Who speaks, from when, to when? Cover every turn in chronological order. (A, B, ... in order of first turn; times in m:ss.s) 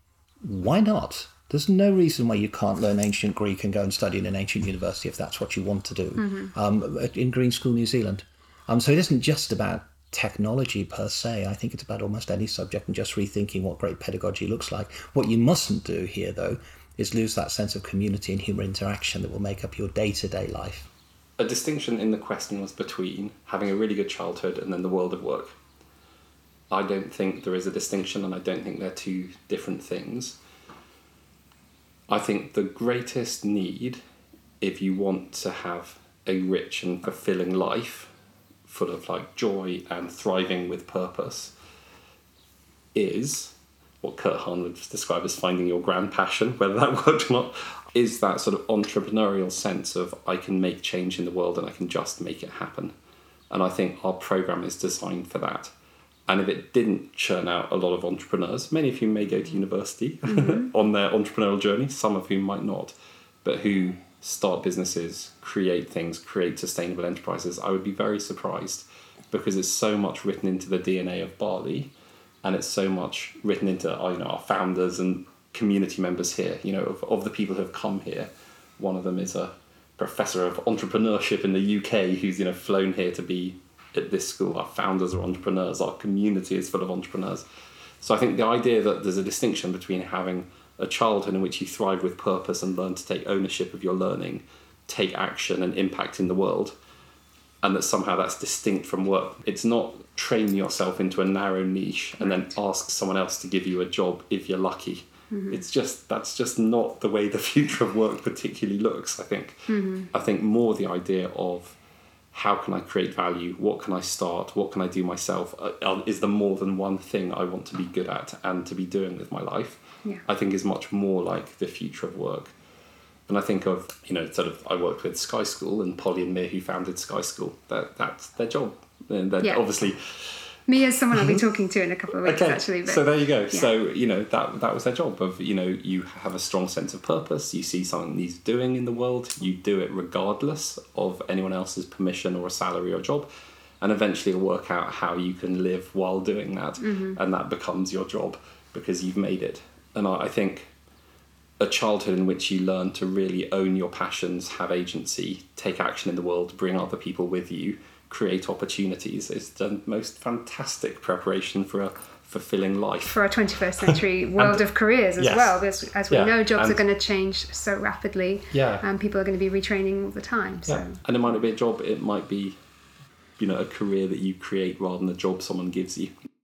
0:00.4-0:20.9 A
0:06.2-0:06.5 B
0:21.4-0:25.5 C
0:26.7-0:30.4 C
0:32.1-0:34.0 C
0:34.6-0:38.1 C
0:38.7-0:41.5 C
0:43.0-0:52.9 C
0:53.5-0:55.7 C
0:56.3-1:27.5 C
1:00.3-1:00.7 B
1:28.0-1:36.8 C
1:37.6-1:51.8 C
1:45.3-1:45.6 B
1:49.7-1:50.1 B
1:52.3-2:02.5 C
2:03.3-2:10.3 C
2:10.7-2:13.7 B
2:11.1-2:11.4 C
2:12.2-2:23.3 C
2:23.8-2:30.7 C
2:26.8-2:27.2 B
2:31.6-2:43.2 C
2:43.1-2:51.0 B
2:43.8-2:44.6 C
2:45.2-2:45.6 C
2:46.1-2:46.8 C
2:48.5-2:48.8 C
2:50.7-2:52.6 C
2:53.4-2:56.1 C